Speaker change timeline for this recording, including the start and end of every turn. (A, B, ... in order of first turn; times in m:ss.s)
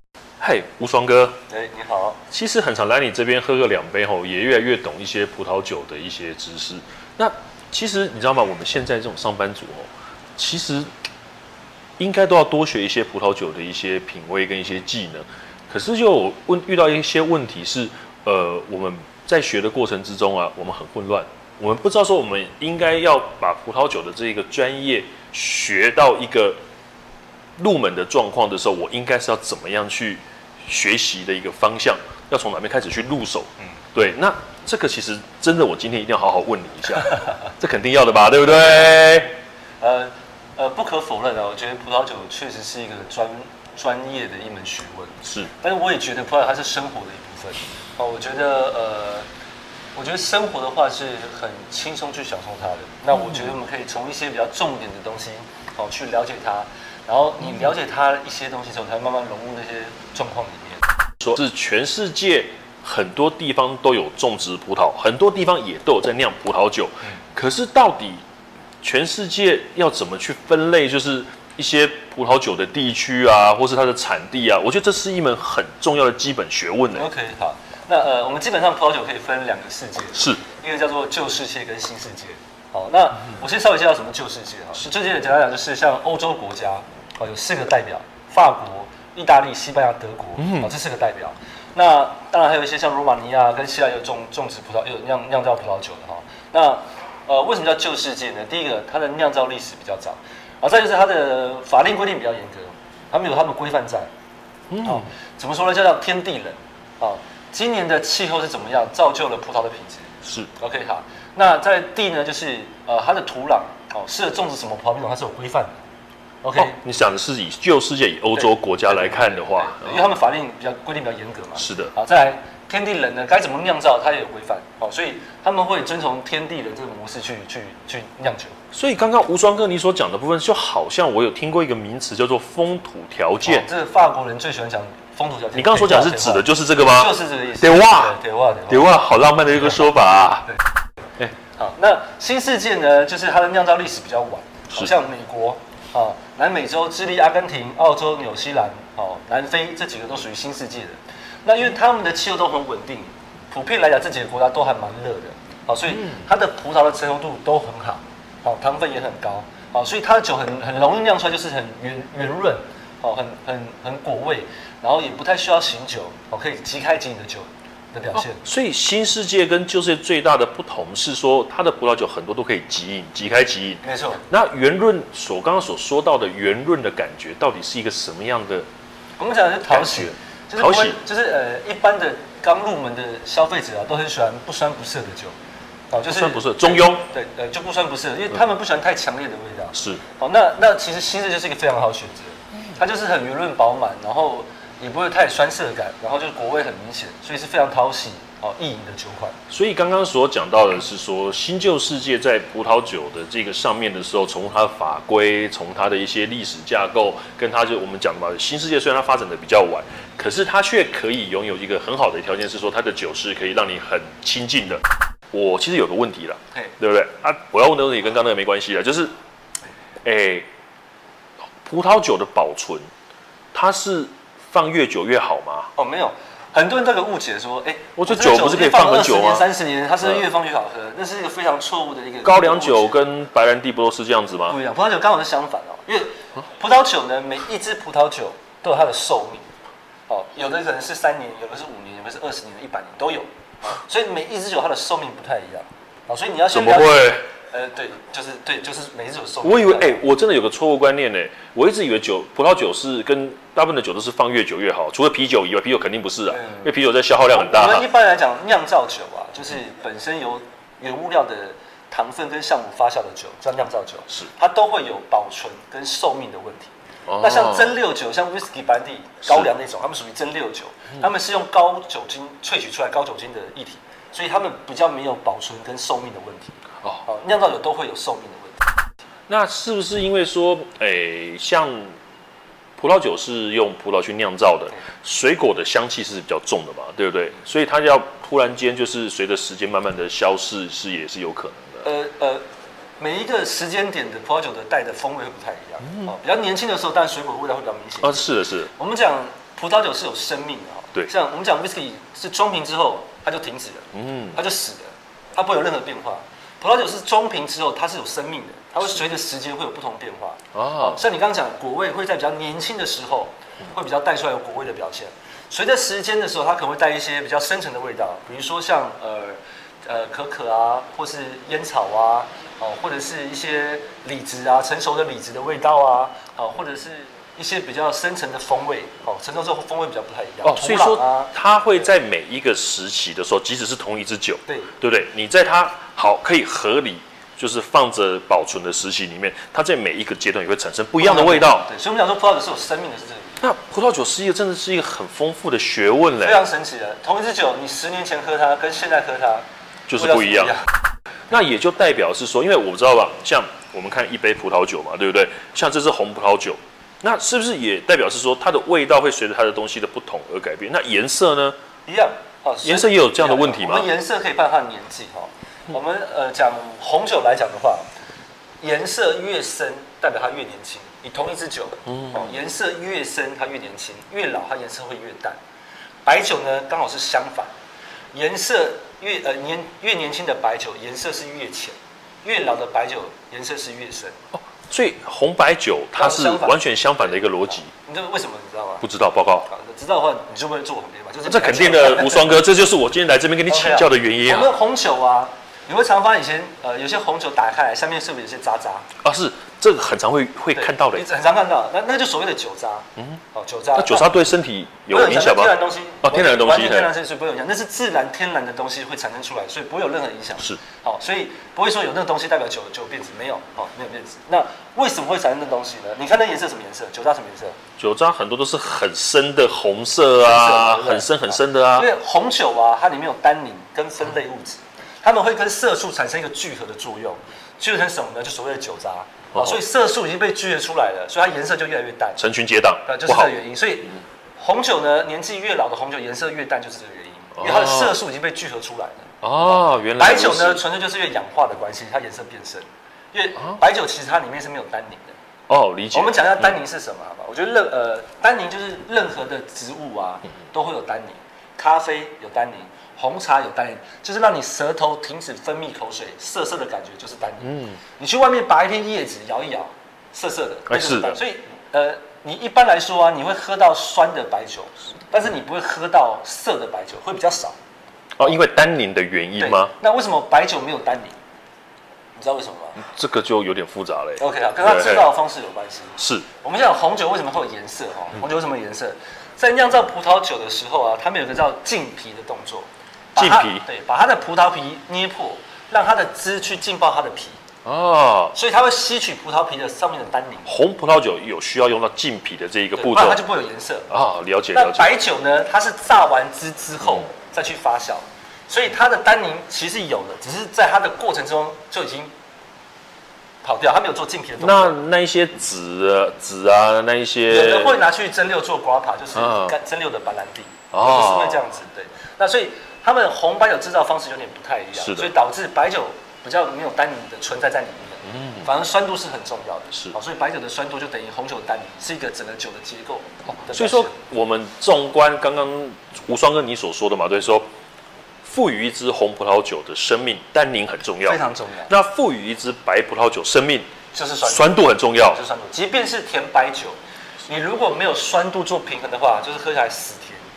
0:00.4-0:01.4 A
0:01.5-0:02.2 B
0:02.3-0:10.9 A
0:12.0-0:26.6 A
0:27.6-0:39.4 A
0:39.8-0:49.3 B
0:45.2-0:45.5 A
0:49.9-1:00.8 B
0:53.1-0:53.5 A
1:01.2-1:08.2 A
1:08.8-1:17.0 A
1:16.9-1:44.1 B
1:20.2-1:20.4 A
1:30.4-1:30.7 A
1:44.7-1:45.0 A
1:44.8-1:55.8 B
1:56.4-1:56.8 B
1:56.6-2:00.1 A
1:58.4-2:08.5 B
2:01.6-2:01.9 A
2:08.7-2:13.7 A
2:13.4-2:18.9 B
2:15.5-2:18.2 A
2:18.7-2:20.6 A
2:21.5-2:48.4 B
2:35.9-2:36.2 A
2:48.1-2:58.7 A
2:53.8-2:54.2 B
2:59.2-3:05.3 B
2:59.7-3:01.0 A
3:05.9-3:19.3 B
3:06.1-3:07.0 A
3:09.7-3:10.0 A
3:19.5-3:39.1 A
3:40.0-3:40.5 A
3:41.6-3:42.9 A
3:43.5-3:45.7 A
3:45.8-3:53.0 B
3:48.0-3:49.4 A
3:52.2-3:54.6 A
3:54.5-3:59.5 B
4:00.1-4:10.0 B
4:06.5-4:07.2 A
4:09.4-4:17.9 A
4:16.3-4:16.6 B
4:17.3-4:38.6 B
4:27.1-4:27.7 A
4:39.3-4:41.9 A
4:42.8-4:51.8 A
4:51.8-4:52.4 B
4:53.0-5:31.8 B
4:55.8-4:56.1 A
4:58.0-4:58.7 A
5:03.9-5:04.4 A
5:10.5-5:11.0 A
5:30.4-5:41.7 A
5:34.5-5:34.7 B
5:41.0-5:43.4 B
5:43.4-5:46.4 A
5:46.2-5:49.4 B
5:49.9-5:50.6 A
5:50.0-5:50.7 B
5:51.3-6:01.6 A
6:01.8-6:07.9 B
6:02.6-6:03.9 A
6:08.6-6:15.4 B
6:11.9-6:12.3 A
6:16.0-6:17.5 B
6:18.1-6:24.2 B
6:24.3-6:27.7 A
6:26.0-6:28.8 B
6:28.8-6:29.5 A
6:29.5-6:32.3 B
6:31.2-6:34.5 A
6:33.5-6:38.9 B
6:39.0-6:41.0 A
6:40.5-6:44.1 B
6:43.7-6:46.9 A
6:44.9-6:57.6 B
6:57.8-7:01.9 A
7:00.2-7:12.2 B
7:12.2-7:13.3 A
7:12.8-7:25.2 B
7:17.4-7:18.0 A
7:19.2-7:20.6 A
7:25.5-7:26.5 A
7:25.9-7:47.6 B
7:37.4-7:37.8 A
7:40.7-7:41.2 A
7:48.2-7:49.7 A
7:49.4-7:51.2 B
7:52.2-7:52.8 B
7:52.8-7:55.1 A
7:54.2-8:07.4 B
7:56.0-7:56.3 A
8:03.2-8:03.6 A
8:07.6-8:08.3 A
8:08.3-8:10.5 B
8:10.5-8:13.2 A
8:12.7-8:13.9 B
8:13.9-8:14.9 A
8:14.5-8:22.1 B
8:23.4-8:24.8 B
8:24.4-8:27.8 A
8:27.3-8:44.0 B
8:29.2-8:29.5 A
8:30.7-8:31.4 A
8:34.8-8:35.1 A
8:38.0-8:38.5 A
8:43.3-8:47.5 A
8:48.2-8:53.7 A
8:51.0-8:51.7 B
8:53.9-9:00.2 B
8:54.2-8:55.2 A